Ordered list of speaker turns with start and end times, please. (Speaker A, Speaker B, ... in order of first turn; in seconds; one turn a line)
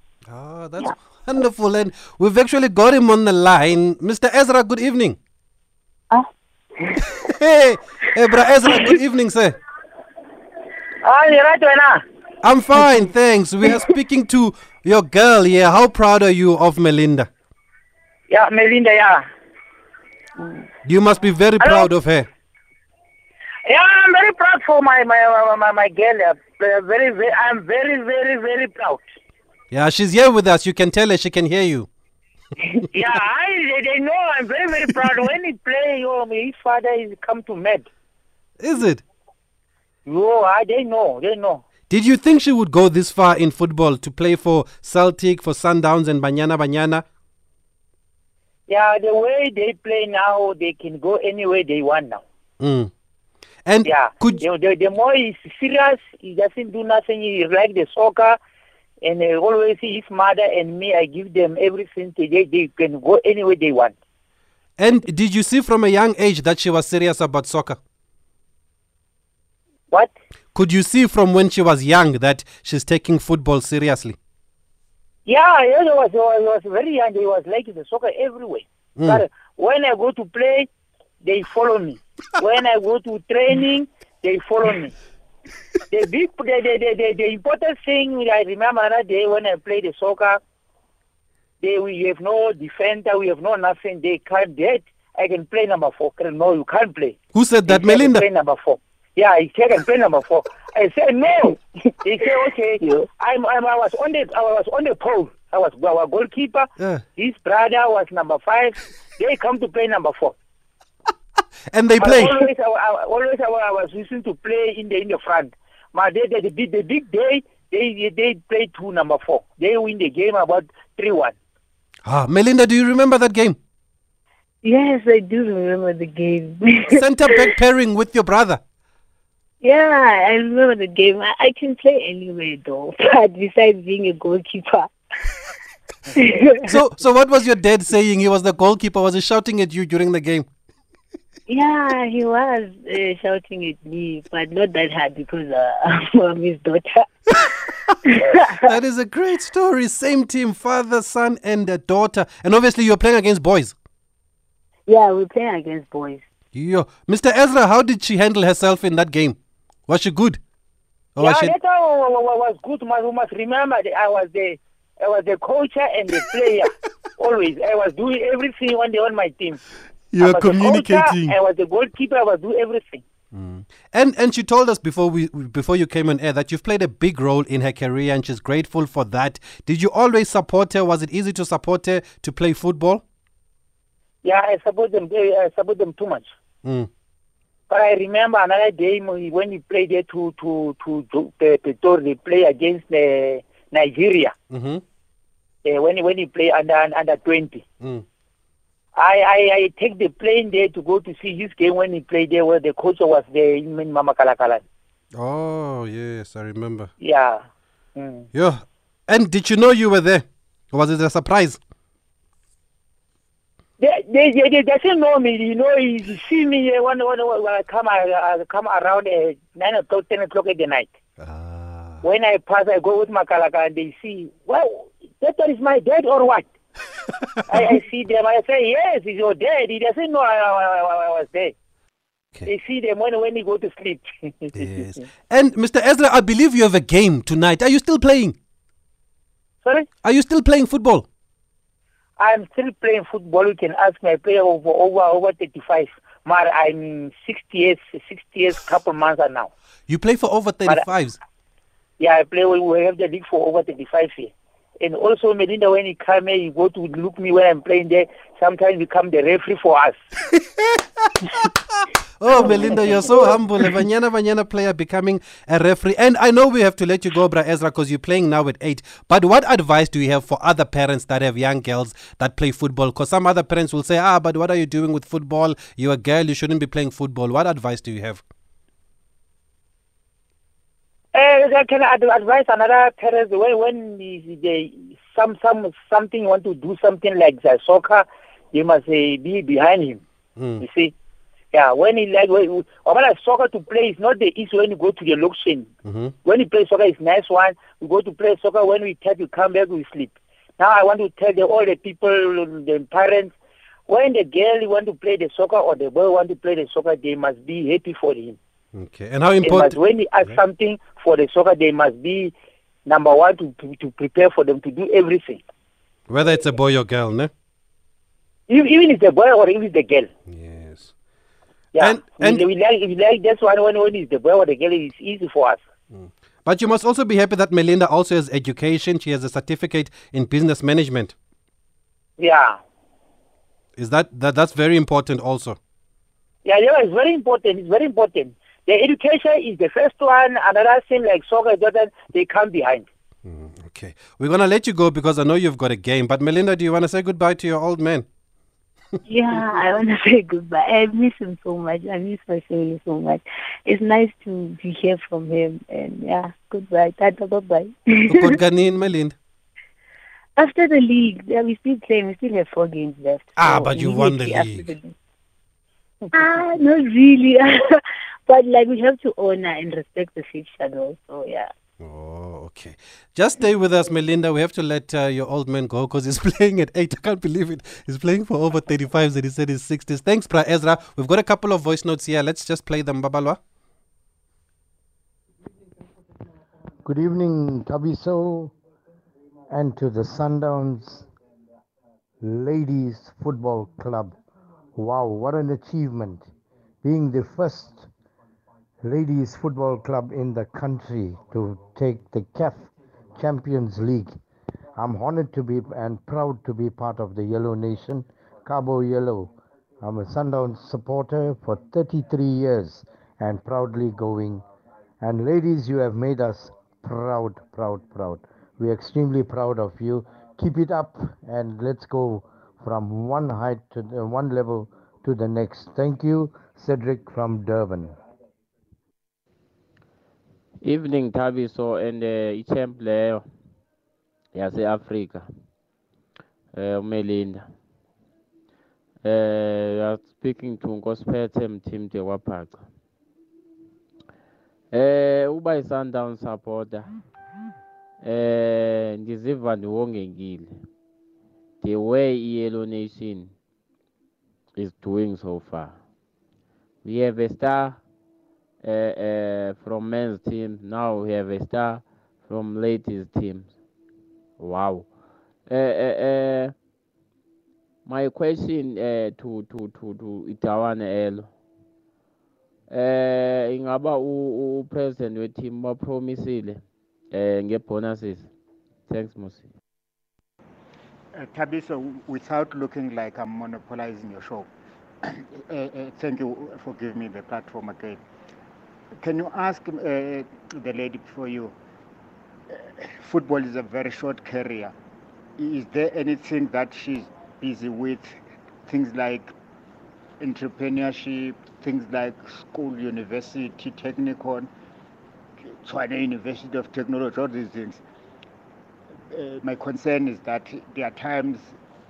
Speaker A: 0.3-5.2
Speaker B: 6.8-7.1
Speaker A: 7.0-9.6
Speaker C: 11.0-12.0
Speaker A: 12.4-17.3
Speaker C: 18.3-19.2
Speaker B: 20.4-20.7
Speaker A: 20.9-22.3
Speaker C: 21.6-21.9
Speaker C: 23.7-29.1
Speaker A: 29.7-31.9
Speaker C: 32.9-37.9
Speaker A: 38.6-39.0
Speaker C: 40.1-41.6
Speaker A: 41.9-47.0
Speaker C: 48.7-52.2
Speaker A: 52.6-52.9
Speaker A: 53.7-54.5
Speaker C: 53.9-58.4
Speaker C: 59.0-63.9
Speaker A: 64.8-67.8
Speaker A: 70.5-74.2
Speaker C: 75.3-80.7
Speaker A: 79.0-79.2
Speaker C: 81.2-84.9
Speaker C: 85.9-90.4
Speaker C: 91.6-97.2
Speaker A: 97.3-98.2
Speaker C: 97.7-110.3
Speaker B: 102.8-103.1
Speaker A: 106.8-107.0
Speaker A: 111.7-112.5
Speaker C: 112.0-121.3
Speaker A: 122.0-123.6
Speaker B: 124.6-127.0
Speaker A: 126.9-128.6
Speaker B: 129.6-134.9
Speaker B: 136.1-136.7
Speaker A: 136.7-140.5
Speaker B: 141.5-147.4
Speaker B: 148.1-148.6
Speaker A: 148.6-153.7
Speaker B: 154.9-156.2
Speaker A: 156.5-159.4
Speaker A: 159.9-160.4
Speaker A: 161.2-161.6
Speaker C: 161.2-169.6
Speaker A: 170.1-171.4
Speaker C: 170.2-173.0
Speaker A: 173.3-183.0
Speaker C: 184.2-186.3
Speaker A: 186.6-186.9
Speaker C: 187.7-194.3
Speaker A: 194.5-194.8
Speaker C: 195.7-197.6
Speaker C: 199.0-204.6
Speaker A: 205.1-206.9
Speaker C: 207.0-207.4
Speaker C: 208.0-208.3
Speaker A: 208.3-211.6
Speaker C: 213.8-220.9
Speaker A: 221.2-222.0
Speaker C: 222.0-226.5
Speaker C: 227.5-231.5
Speaker C: 232.5-234.7
Speaker A: 234.5-238.3
Speaker A: 240.0-241.1
Speaker C: 242.2-249.5
Speaker A: 249.9-251.2
Speaker C: 252.0-260.0
Speaker A: 260.3-278.2
Speaker B: 262.4-263.4
Speaker C: 281.1-290.0
Speaker A: 290.4-290.6
Speaker C: 290.6-290.9
Speaker C: 291.5-295.7
Speaker A: 295.9-296.1
Speaker C: 296.2-303.3
Speaker C: 303.9-308.4
Speaker A: 308.7-310.4
Speaker C: 309.4-312.3
Speaker C: 312.9-315.4
Speaker A: 316.1-317.3
Speaker C: 318.5-320.1
Speaker A: 320.3-320.9
Speaker C: 321.7-325.6
Speaker A: 321.8-322.5
Speaker A: 325.9-331.1
Speaker C: 332.2-332.6
Speaker A: 333.8-335.6
Speaker C: 336.4-342.9
Speaker A: 343.2-348.1
Speaker B: 349.1-358.3
Speaker A: 358.1-359.2
Speaker B: 360.4-364.9
Speaker A: 363.4-364.7
Speaker B: 366.1-371.5
Speaker A: 371.8-383.4
Speaker D: 386.9-388.5
Speaker D: 389.5-391.1
Speaker D: 392.2-394.1
Speaker D: 394.8-396.3
Speaker D: 396.8-397.9
Speaker D: 398.8-404.1
Speaker D: 404.8-414.4
Speaker D: 415.0-427.9
Speaker E: 430.6-433.3
Speaker E: 434.3-435.3
Speaker E: 436.5-437.5
Speaker E: 439.0-442.7
Speaker E: 444.7-446.9
Speaker E: 448.0-450.6
Speaker E: 451.6-453.3
Speaker E: 454.6-455.8
Speaker E: 456.8-457.8
Speaker E: 458.6-463.5
Speaker E: 464.4-464.9
Speaker E: 465.5-466.6
Speaker E: 467.9-471.3
Speaker E: 472.7-478.3
Speaker E: 478.9-479.5
Speaker F: 481.1-484.5
Speaker F: 485.0-488.0
Speaker F: 489.0-491.6
Speaker F: 492.5-494.7
Speaker F: 495.4-499.3
Speaker F: 500.2-504.5
Speaker F: 505.4-507.8
Speaker F: 509.1-511.6